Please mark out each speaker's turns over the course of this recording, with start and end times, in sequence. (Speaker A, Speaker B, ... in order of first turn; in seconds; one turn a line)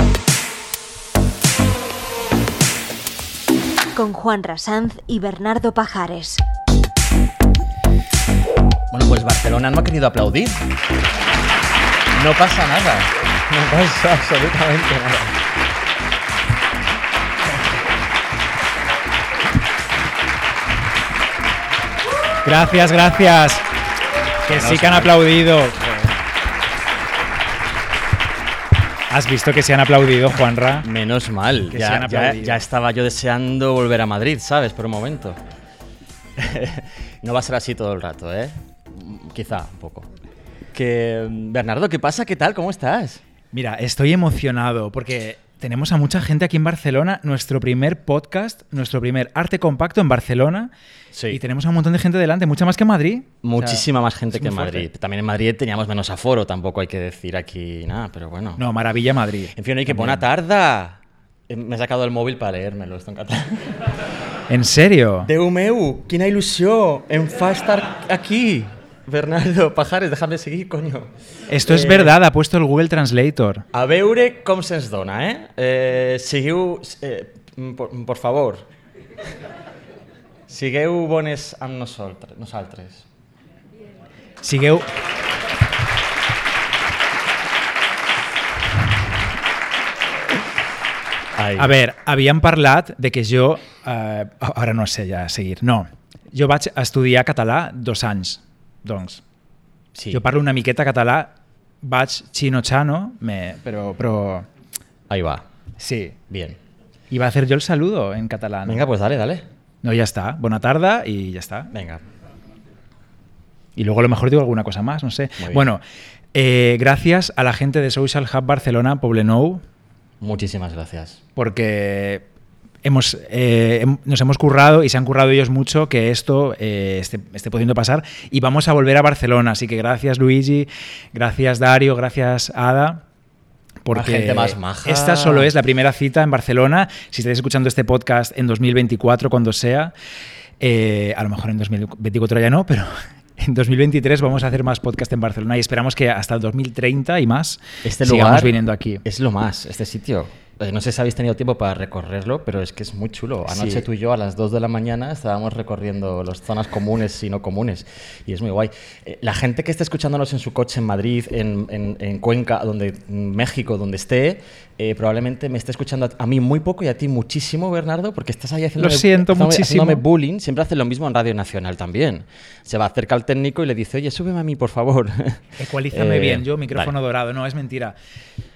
Speaker A: 3.9-6.4
Speaker B: 8.9-10.7
Speaker B: 12.1-15.4
Speaker C: 22.4-23.7
Speaker C: 24.4-26.2
Speaker B: 24.5-25.2
Speaker C: 29.1-30.9
Speaker B: 30.8-35.4
Speaker C: 31.7-32.6
Speaker B: 36.4-40.1
Speaker B: 40.7-43.2
Speaker C: 43.5-50.7
Speaker B: 51.1-51.4
Speaker C: 51.3-54.9
Speaker B: 53.4-58.6
Speaker C: 58.6-60.2
Speaker B: 59.5-64.0
Speaker C: 64.5-65.3
Speaker B: 65.2-72.1
Speaker C: 71.5-73.7
Speaker B: 73.7-78.7
Speaker B: 80.5-83.0
Speaker C: 84.4-84.9
Speaker B: 91.3-91.7
Speaker C: 91.6-99.2
Speaker B: 99.9-100.2
Speaker C: 100.1-104.5
Speaker B: 105.1-105.5
Speaker C: 105.8-106.2
Speaker B: 106.3-106.6
Speaker C: 107.1-108.8
Speaker B: 108.6-109.5
Speaker C: 109.8-111.7
Speaker B: 111.7-112.0
Speaker C: 113.8-115.8
Speaker B: 115.4-115.7
Speaker C: 116.3-119.6
Speaker B: 120.2-121.2
Speaker C: 121.3-122.2
Speaker C: 122.8-133.0
Speaker C: 133.8-139.9
Speaker B: 133.9-135.5
Speaker C: 140.6-149.0
Speaker B: 147.8-176.9
Speaker C: 153.5-153.8
Speaker C: 168.8-170.0
Speaker C: 175.6-177.9